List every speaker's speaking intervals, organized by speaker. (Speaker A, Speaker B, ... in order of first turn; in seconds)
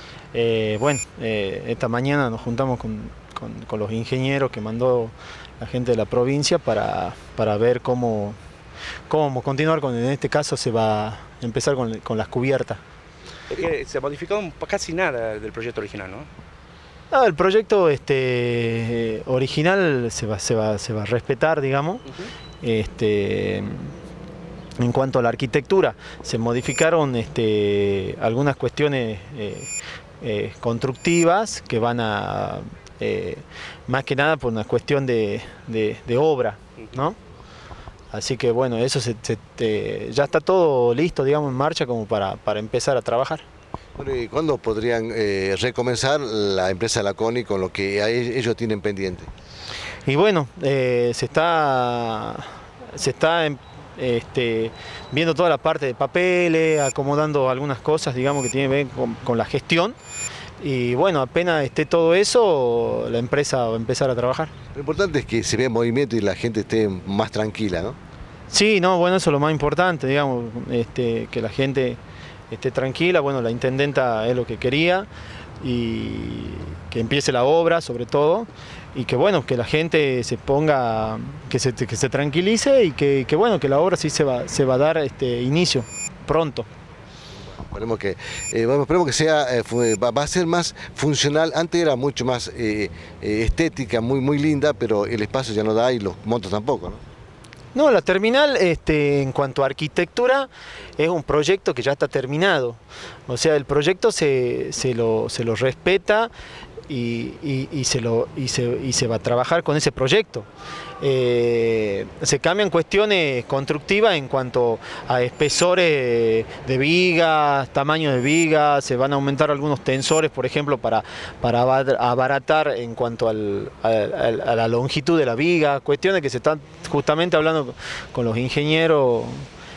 Speaker A: 0.3-8.4, 9.1-12.8, 17.1-22.1, 22.6-23.9, 24.8-37.2, 38.1-43.4, 50.1-60.0, 60.6-64.5, 68.5-72.0, 72.5-75.1, 75.6-86.7, 97.7-106.3, 106.9-110.5, 111.0-129.5
Speaker B: 13.5-16.3
Speaker C: 44.0-49.3, 64.8-68.0, 87.7-97.0